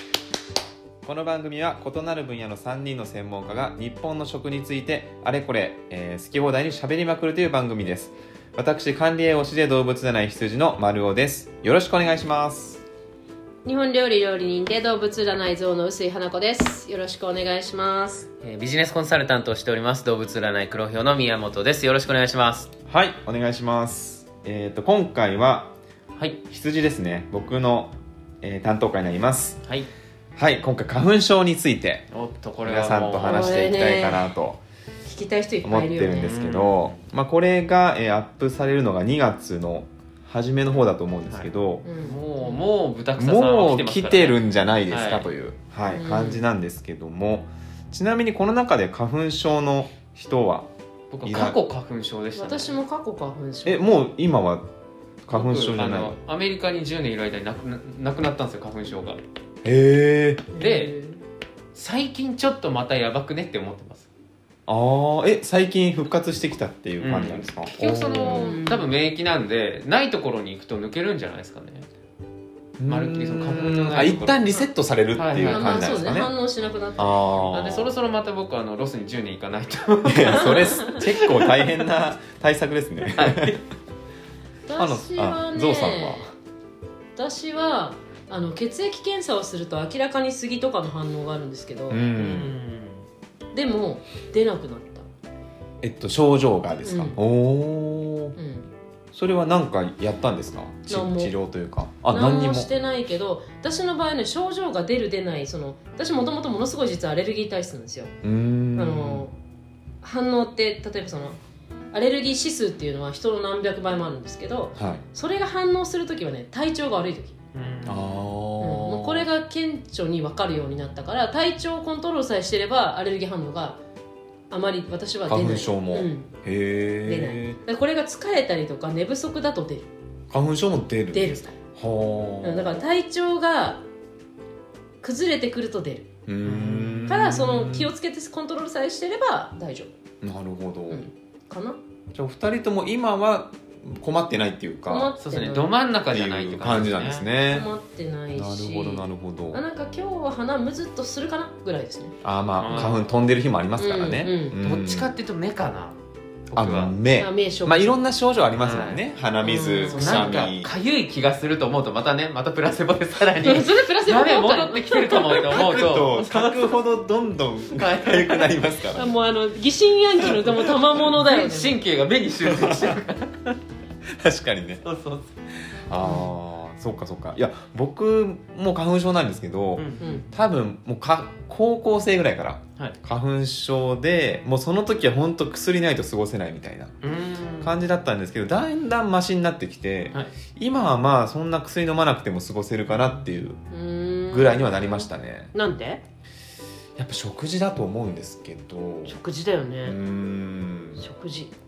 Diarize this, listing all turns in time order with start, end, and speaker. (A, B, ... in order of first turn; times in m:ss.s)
0:01.0-0:12.8 A
0:13.6-0:18.3 B
0:18.4-0:22.7 C
0:22.9-0:25.7 A
0:26.5-0:29.6 A
0:30.4-0:32.1 A
0:32.1-0:33.6 C
0:32.6-0:34.6 A
0:33.2-0:34.3 B
0:35.0-0:36.4 B
0:35.6-0:41.8 A
0:36.2-0:37.0 C
0:41.3-0:44.4 C
0:41.8-0:42.6 B
0:43.2-0:50.7 A
0:44.9-0:45.2 C
0:45.9-0:46.4 B
0:51.1-0:52.8 C
0:51.2-0:51.6 A
0:52.4-0:53.8 B
0:53.6-0:54.7 A
0:55.2-0:56.2 A
0:55.3-0:59.2 C
0:59.6-1:00.5 A
1:00.5-1:01.2 B
1:00.6-1:00.9 C
1:01.8-1:04.1 C
1:04.7-1:08.6 A
1:07.0-1:11.9 C
1:08.3-1:08.9 B
1:12.8-1:16.3 A
1:12.9-1:14.4 C
1:15.2-1:16.0 C
1:15.3-1:17.5 B
1:17.0-1:17.9 A
1:17.5-1:21.7 C
1:20.0-1:23.6 A
1:20.3-1:21.0 B
1:23.2-1:23.6 C
1:24.7-1:26.2 B
1:24.8-1:26.3 A
1:27.2-1:32.0 B
1:31.9-1:32.6 A
1:32.1-1:33.0 C
1:33.5-1:35.1 B
1:35.8-1:38.4 A
1:36.8-1:37.2 B
1:38.4-1:38.7 B
1:39.1-1:42.7 A
1:40.9-1:41.3 B
1:42.1-1:48.1 B
1:48.2-1:49.2 A
1:48.8-1:49.3 B
1:50.0-1:51.4 B
1:51.9-1:57.4 B
1:54.8-1:55.0 A
1:57.5-1:58.1 C
1:57.8-1:59.3 A
1:58.6-2:03.8 B
2:04.5-2:06.3 B
2:05.3-2:07.6 A
2:07.0-2:09.9 B
2:10.3-2:12.8 A
2:11.1-2:11.6 B
2:12.4-2:13.8 B
2:15.0-2:16.1 B
2:16.3-2:17.9 A
2:16.4-2:17.3 C
2:17.1-2:19.9 B
2:20.2-2:21.1 A
2:20.9-2:21.8 B
2:22.1-2:25.1 A
2:24.9-2:25.7 B
2:25.2-2:27.3 C
2:26.1-2:27.7 A
2:27.5-2:32.2 B
2:28.4-2:29.6 A
2:32.2-2:35.1 A
2:32.6-2:33.1 C
2:32.7-2:33.0 B
2:33.8-2:34.6 B
2:34.6-2:36.0 C
2:36.5-2:37.0 C
2:36.6-2:40.7 A
2:37.2-2:38.0 B
2:38.6-2:46.7 C
2:39.5-2:40.4 B
2:43.4-2:45.8 B
2:45.5-2:49.2 A
2:47.7-2:48.6 C
2:48.9-2:51.8 B
2:50.2-2:51.0 A
2:51.2-2:53.6 C
2:52.4-2:53.0 A
2:54.1-2:54.8 A
2:54.8-2:55.3 C
2:55.7-3:06.9 A
2:56.0-2:56.3 B
2:59.8-3:00.2 C
3:00.0-3:00.3 B
3:07.0-3:07.7 C
3:07.6-3:13.6 A
3:13.7-3:16.0 B
3:14.3-3:15.5 A
3:17.0-3:19.2 A
3:19.1-3:20.0 B
3:19.8-3:21.0 A
3:21.0-3:21.5 B